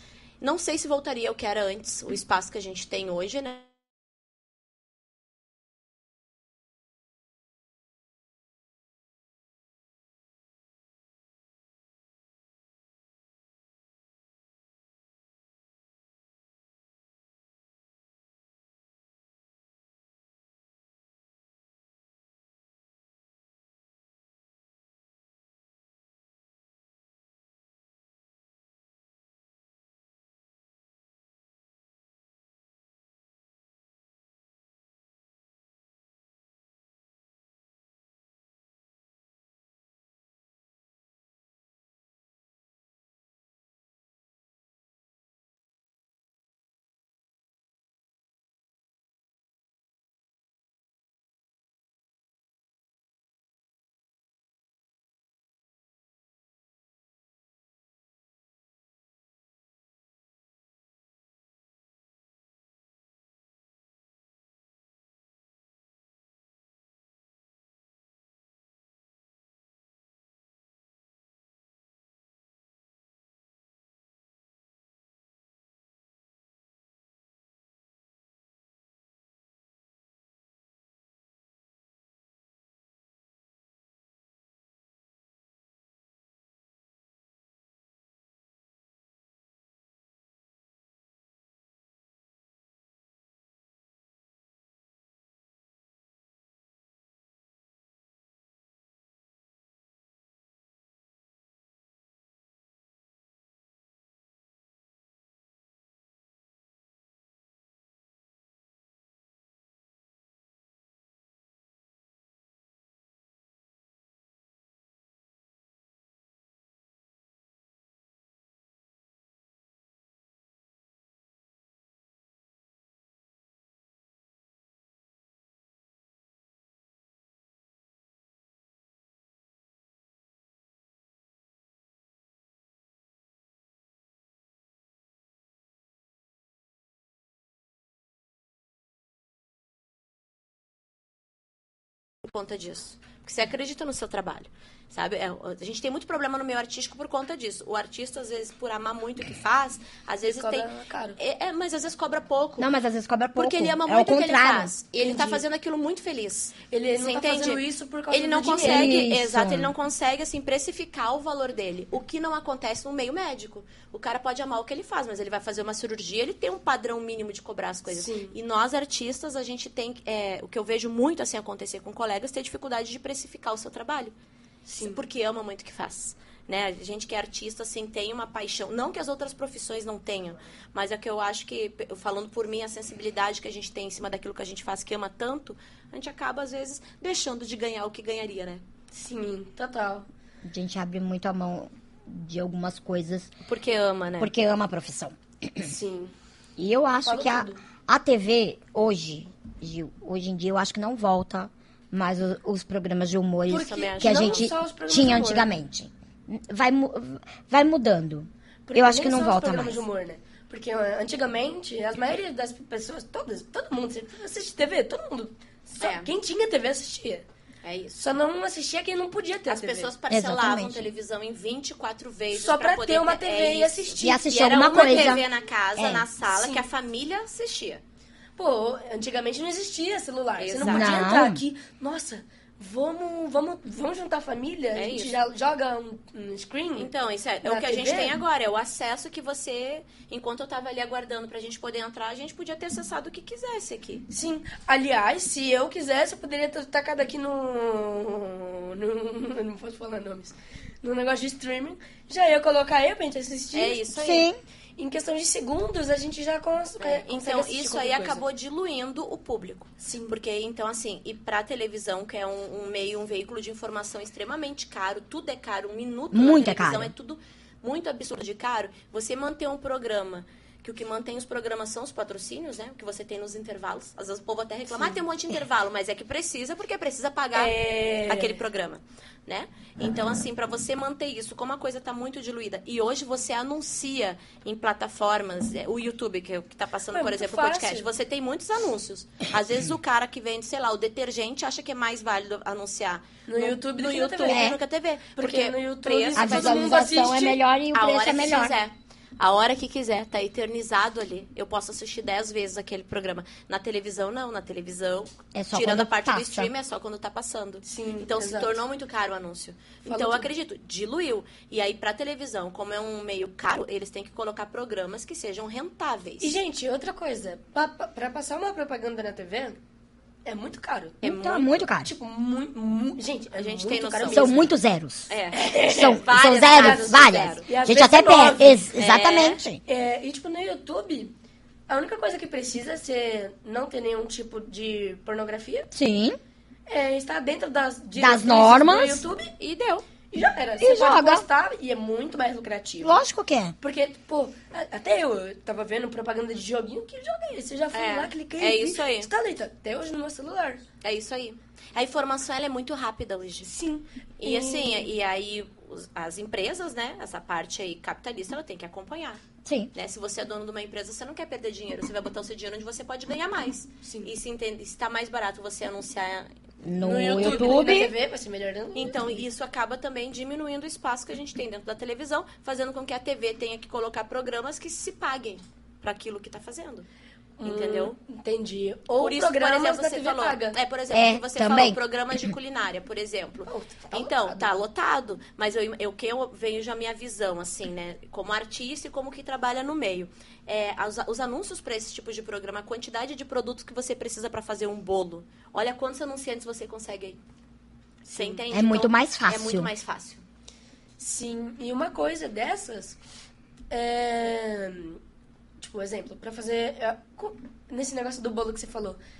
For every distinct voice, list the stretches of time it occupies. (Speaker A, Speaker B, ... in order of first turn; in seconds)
Speaker A: 0.4-3.7, 142.2-152.7, 153.3-174.1, 174.8-188.6, 193.4-194.3, 203.6-204.5, 215.8-216.1, 217.6-217.9, 219.5-227.8, 230.4-231.0, 234.7-235.1, 236.8-244.0, 253.5-254.3, 256.8-277.5, 278.1-296.8, 297.7-316.4, 321.0-321.4, 323.3-324.4, 325.1-327.5, 328.8-329.4, 339.4-339.9, 347.7-349.1, 350.8-353.5, 354.2-359.2, 359.7-366.3, 367.1-367.7, 368.7-376.9, 377.4-378.0, 379.0-397.2, 398.1-400.2
Speaker B: 150.3-151.2, 155.0-155.4, 156.7-159.0, 167.9-168.3, 174.7-175.0, 188.9-190.1, 195.6-196.1, 197.0-197.6, 203.5-205.5, 208.7-217.2, 217.9-219.9, 222.3-225.2, 226.3-226.6, 228.4-236.9, 237.4-238.2, 244.1-253.8, 254.8-258.2, 259.8-260.1, 277.3-278.4, 286.9-287.9, 293.3-294.6, 295.2-297.4, 307.6-308.5, 309.9-310.3, 316.2-319.6, 320.2-321.1, 321.8-324.5, 325.3-328.7, 329.7-331.1, 331.7-335.7, 336.7-339.3, 340.1-343.0, 343.6-350.6, 353.4-354.9, 363.8-364.1, 366.8-369.2, 377.4-380.6, 383.5-384.6, 398.1-398.4, 401.0-402.9, 403.7-405.0, 405.6-409.0
Speaker C: 152.6-154.7, 158.6-159.7, 190.4-193.3, 194.2-195.7, 196.6-209.8, 220.1-220.9, 224.0-225.2, 225.8-226.1, 230.7-231.4, 253.9-254.4, 266.1-266.9, 294.2-294.6, 296.1-298.5, 305.3-306.5, 321.0-321.9, 324.1-325.1, 325.6-329.6, 335.7-336.2, 338.0-339.0, 340.6-341.2, 342.8-343.5, 359.4-359.7, 366.6-367.9, 380.9-381.8, 398.5-399.7